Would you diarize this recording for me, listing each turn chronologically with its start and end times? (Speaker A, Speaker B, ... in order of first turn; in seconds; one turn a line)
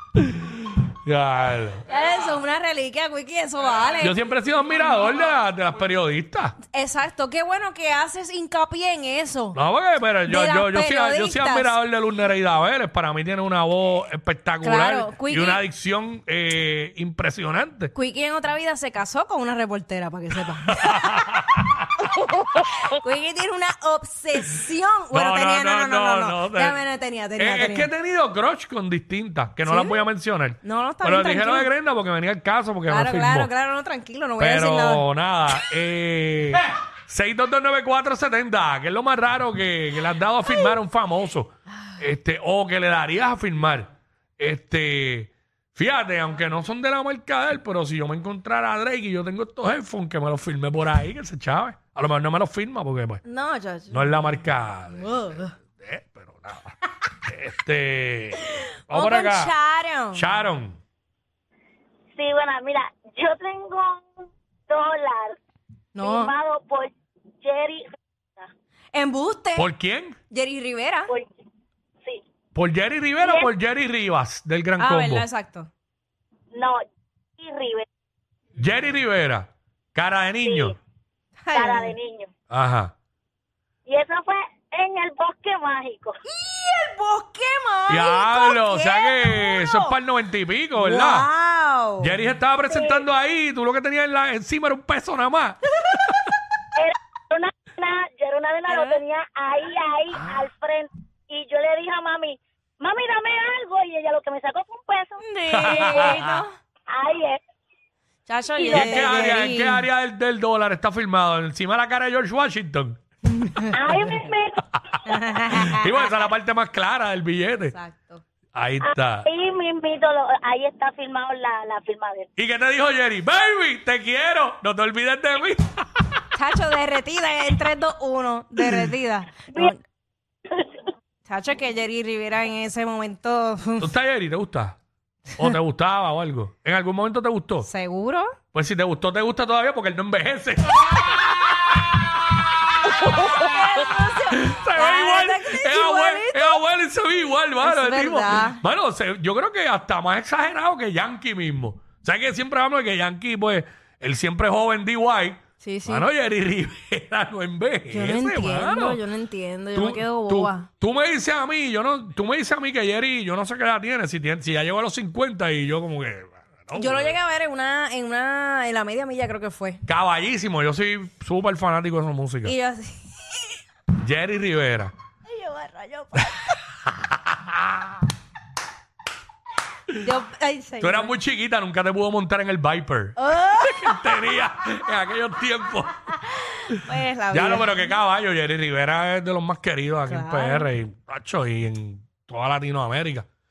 Speaker A: 0.1-1.8
Speaker B: 1.9-4.2
Speaker A: 4.0-6.5
Speaker B: 6.7-9.6
Speaker A: 9.5-17.9
Speaker B: 10.2-11.8
Speaker B: 14.6-15.6
Speaker B: 17.9-21.4
Speaker A: 20.7-21.8
Speaker B: 22.0-27.9
Speaker A: 25.1-26.8
Speaker A: 27.4-33.5
Speaker B: 29.6-30.0
Speaker B: 30.6-31.7
Speaker B: 32.9-35.0
Speaker A: 34.4-53.2
Speaker B: 53.2-54.3
Speaker A: 53.9-59.5
Speaker B: 54.9-55.5
Speaker B: 58.4-60.3
Speaker A: 60.1-60.8
Speaker C: 62.1-64.1
Speaker C: 64.7-65.4
Speaker B: 65.9-66.3
Speaker C: 66.0-68.5
Speaker B: 68.9-69.7
Speaker A: 69.6-70.1
Speaker B: 70.3-71.1
Speaker A: 72.5-75.2
Speaker C: 73.2-73.5
Speaker B: 74.8-75.7
Speaker C: 76.5-76.8
Speaker C: 77.4-77.8
Speaker A: 78.6-80.7
Speaker C: 80.4-80.7
Speaker B: 81.4-81.9
Speaker C: 81.5-82.3
Speaker A: 82.5-82.9
Speaker C: 83.8-86.1
Speaker B: 86.3-90.0
Speaker A: 87.9-91.3
Speaker B: 90.7-92.1
Speaker A: 92.0-95.6
Speaker C: 96.8-106.2
Speaker B: 98.7-99.0
Speaker B: 105.2-106.5
Speaker A: 105.5-106.5
Speaker C: 106.9-107.4
Speaker B: 108.2-109.8
Speaker C: 108.5-109.3
Speaker A: 108.7-113.0
Speaker B: 113.3-113.7
Speaker C: 113.7-114.6
Speaker A: 114.7-117.7
Speaker B: 115.0-116.2
Speaker B: 117.7-118.2
Speaker A: 118.5-119.3
Speaker C: 118.8-122.3
Speaker A: 122.4-126.2
Speaker B: 126.3-129.8
Speaker C: 130.5-130.8
Speaker B: 131.2-133.9
Speaker A: 133.8-134.8
Speaker A: 135.3-137.7
Speaker B: 137.6-138.4
Speaker A: 138.5-143.5
Speaker B: 142.8-146.6
Speaker A: 144.3-159.0
Speaker B: 147.6-148.6
Speaker B: 155.6-156.1
Speaker B: 157.9-160.7
Speaker A: 159.7-167.1
Speaker B: 166.7-169.8
Speaker A: 169.8-172.5
Speaker B: 172.4-173.5
Speaker A: 173.9-174.9
Speaker B: 175.3-176.6
Speaker A: 176.9-177.9
Speaker B: 179.9-181.1
Speaker A: 180.8-193.2
Speaker B: 183.2-184.3
Speaker B: 186.7-187.9
Speaker B: 190.1-190.7